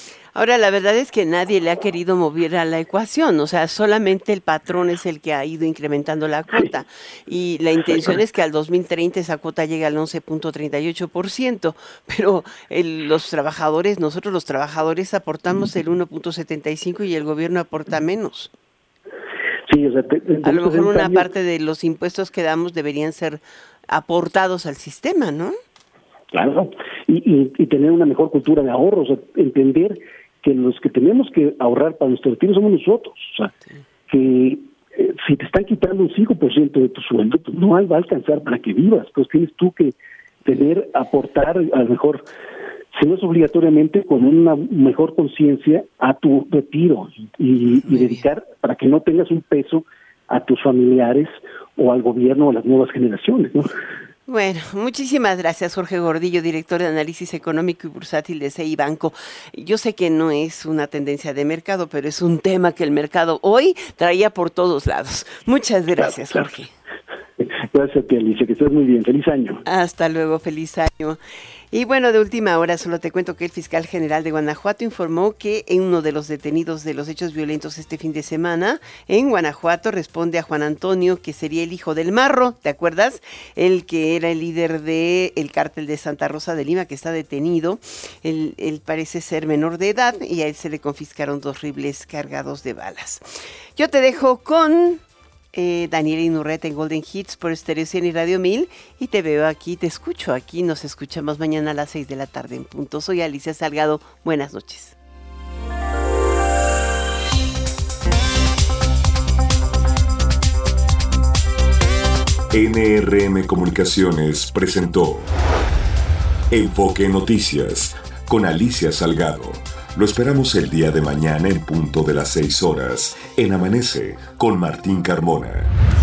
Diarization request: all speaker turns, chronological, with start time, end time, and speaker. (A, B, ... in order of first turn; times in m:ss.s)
0:00.3-0:18.5 A
0:19.7-0:21.3 B
0:20.4-0:25.6 A
0:26.3-0:33.5 B
0:34.1-0:42.2 B
0:42.9-0:53.7 B
0:47.8-0:48.2 A
0:54.3-1:06.7 A
1:06.0-1:06.4 B
1:07.4-1:09.6 B
1:09.6-1:11.2 A
1:11.7-1:35.0 A
1:35.5-1:45.0 A
1:52.5-1:55.3 C
1:56.5-2:05.7 C